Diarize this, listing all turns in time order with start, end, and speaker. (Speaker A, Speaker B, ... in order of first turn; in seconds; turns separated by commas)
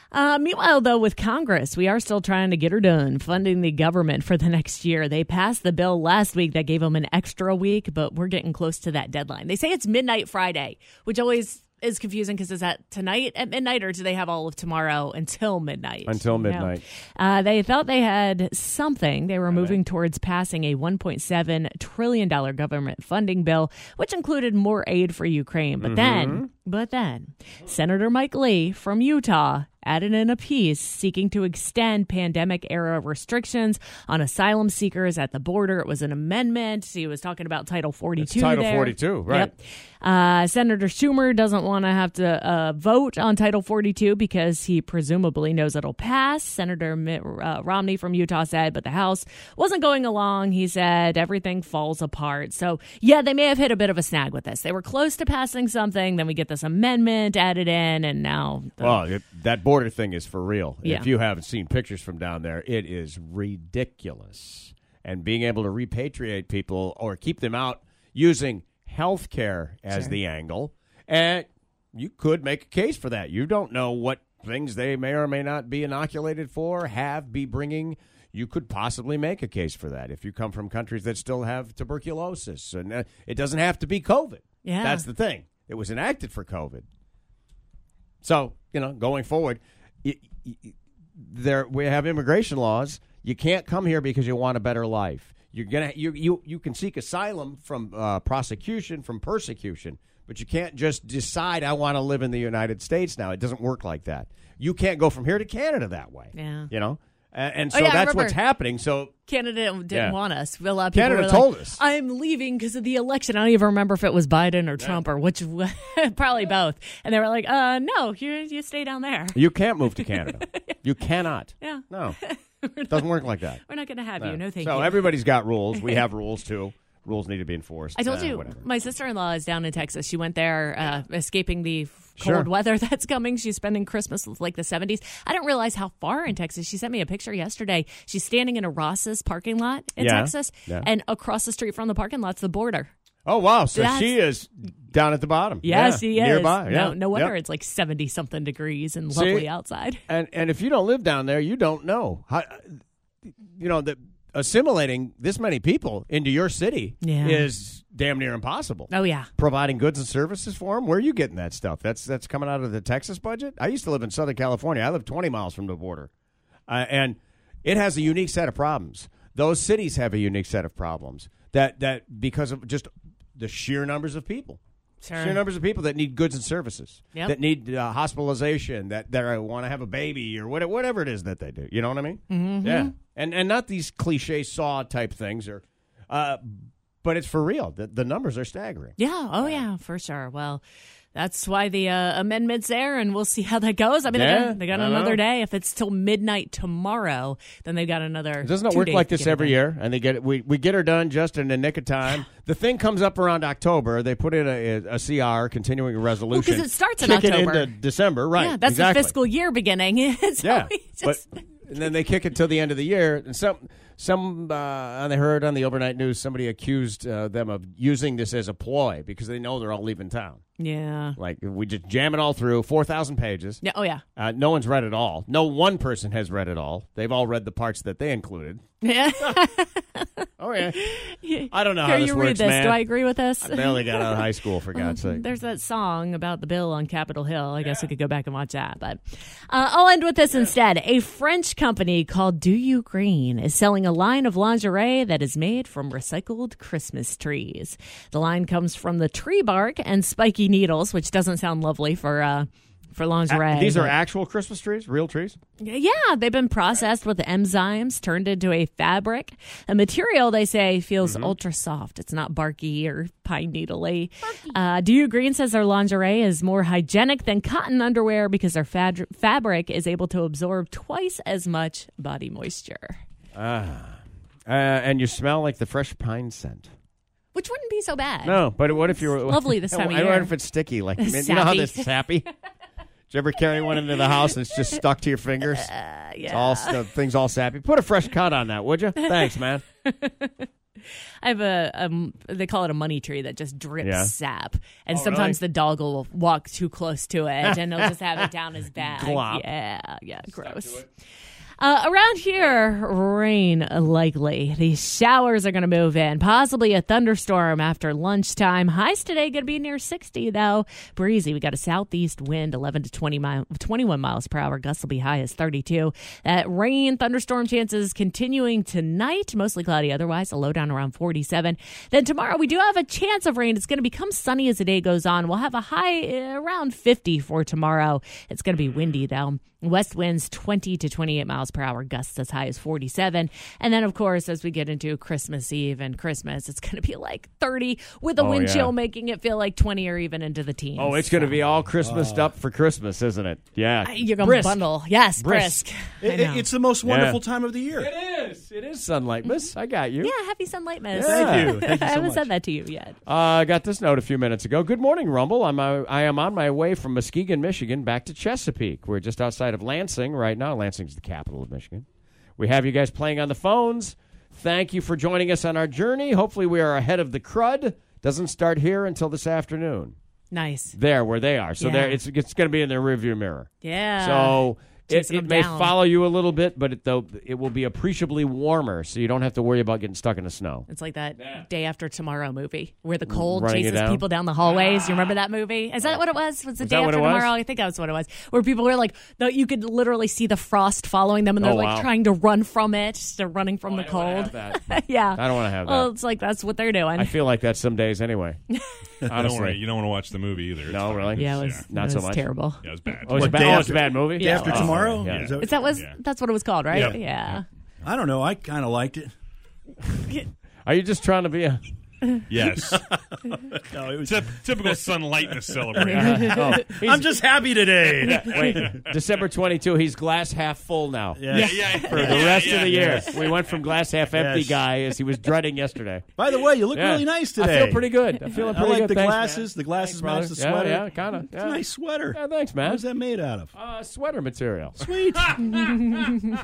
Speaker A: 0.1-59.0, Speaker B: 16.1-16.8, Speaker B: 19.5-19.8, Speaker B: 25.8-26.5, Speaker B: 38.2-39.5, Speaker B: 58.8-86.8, Speaker A: 60.8-61.1, Speaker A: 69.9-70.2, Speaker A: 84.6-85.0, Speaker B: 88.2-109.1, Speaker A: 106.3-106.7, Speaker A: 107.7-108.4, Speaker A: 109.3-119.4, Speaker B: 109.9-110.2, Speaker B: 110.9-111.8, Speaker B: 119.3-122.2, Speaker A: 120.0-120.8, Speaker A: 121.6-125.2, Speaker B: 122.9-123.6, Speaker B: 124.2-128.6, Speaker A: 125.8-126.0, Speaker A: 128.0-142.9, Speaker B: 132.2-132.5, Speaker B: 140.0-140.9, Speaker B: 143.3-147.3, Speaker A: 143.7-144.1, Speaker A: 145.6-150.0, Speaker B: 149.1-149.5, Speaker B: 150.1-166.1, Speaker A: 157.0-157.5, Speaker A: 158.9-159.3, Speaker B: 166.7-174.6, Speaker A: 175.0-175.4, Speaker B: 175.2-189.6, Speaker A: 182.3-182.9, Speaker A: 189.0-190.6, Speaker A: 191.1-199.6, Speaker B: 194.1-195.2, Speaker B: 198.4-209.1, Speaker A: 206.3-207.7, Speaker A: 208.4-211.2, Speaker B: 210.4-220.4, Speaker A: 220.6-221.2, Speaker B: 221.2-223.6, Speaker A: 223.6-224.0, Speaker B: 224.2-228.6, Speaker A: 228.8-254.0, Speaker B: 230.4-230.9, Speaker B: 231.5-232.9, Speaker B: 233.4-235.2, Speaker B: 253.3-255.4, Speaker A: 255.6-273.0, Speaker B: 261.0-261.3, Speaker B: 273.4-276.7, Speaker A: 277.3-280.4, Speaker B: 278.2-282.3, Speaker A: 281.0-281.9, Speaker B: 283.1-285.7, Speaker A: 285.5-286.8, Speaker B: 286.3-289.6, Speaker A: 289.9-290.5, Speaker A: 291.2-300.9, Speaker B: 293.8-294.1, Speaker B: 294.9-295.4, Speaker B: 297.4-298.2, Speaker B: 298.8-299.5, Speaker B: 300.3-300.9, Speaker A: 301.6-341.4, Speaker B: 338.2-338.7, Speaker B: 340.8-344.6, Speaker C: 341.8-342.3, Speaker A: 343.8-346.5, Speaker B: 345.2-345.6, Speaker C: 346.0-347.9, Speaker B: 346.8-347.2, Speaker B: 347.7-350.1, Speaker A: 350.0-353.0, Speaker B: 350.9-351.6, Speaker C: 351.0-352.3, Speaker B: 353.1-361.9, Speaker B: 362.4-369.9, Speaker A: 370.3-370.8, Speaker B: 370.7-380.7, Speaker A: 371.6-372.0, Speaker A: 373.6-375.7, Speaker A: 380.7-397.2, Speaker B: 383.1-384.1, Speaker B: 386.6-387.3, Speaker B: 391.4-391.9, Speaker B: 393.7-395.9, Speaker B: 397.0-398.4, Speaker B: 399.1-399.6, Speaker D: 399.1-401.6, Speaker B: 400.7-402.3, Speaker A: 401.2-403.4, Speaker D: 402.6-403.8, Speaker B: 403.1-405.3, Speaker C: 403.1-405.7, Speaker A: 404.2-404.7, Speaker D: 404.4-406.0, Speaker A: 405.4-407.4, Speaker C: 406.7-407.0, Speaker C: 407.8-409.1, Speaker B: 410.7-411.6, Speaker D: 412.3-412.8, Speaker C: 412.6-413.0, Speaker C: 413.7-418.7, Speaker D: 413.9-416.4, Speaker B: 415.9-417.1, Speaker B: 418.0-426.1, Speaker C: 421.1-423.1, Speaker D: 421.3-423.4, Speaker A: 421.4-421.9, Speaker C: 424.1-424.6, Speaker C: 426.2-433.5, Speaker B: 426.7-431.6, Speaker B: 432.1-432.9, Speaker B: 433.6-434.9, Speaker C: 434.8-435.3, Speaker D: 435.3-435.9